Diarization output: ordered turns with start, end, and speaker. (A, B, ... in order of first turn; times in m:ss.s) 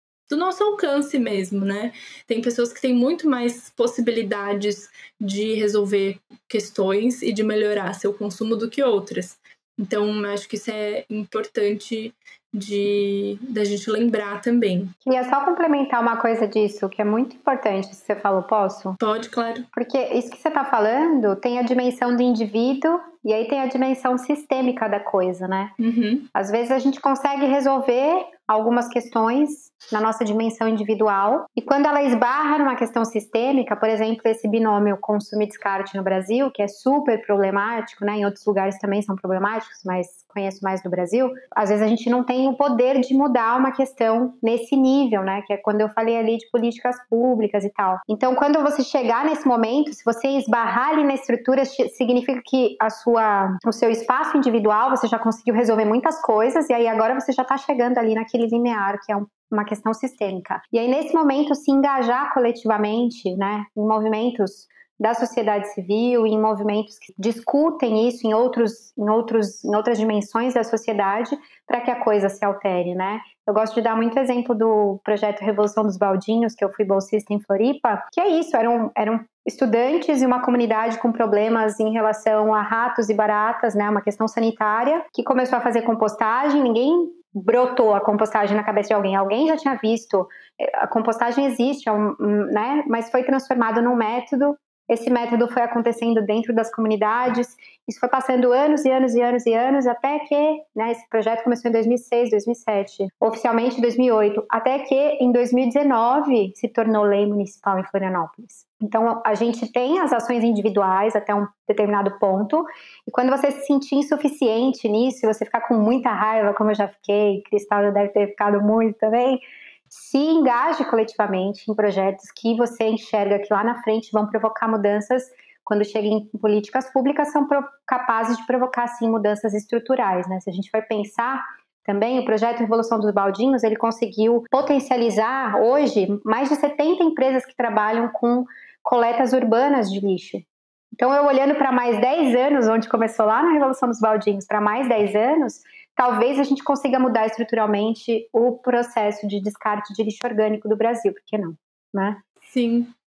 0:00.3-0:14.9 A
0:15.0-0:19.0 B
0:19.0-0:19.6 A
0:19.7-0:25.7 B
0:25.8-0:26.3 A
0:26.3-2:20.4 B
2:21.0-2:32.2 B
2:32.4-2:32.9 A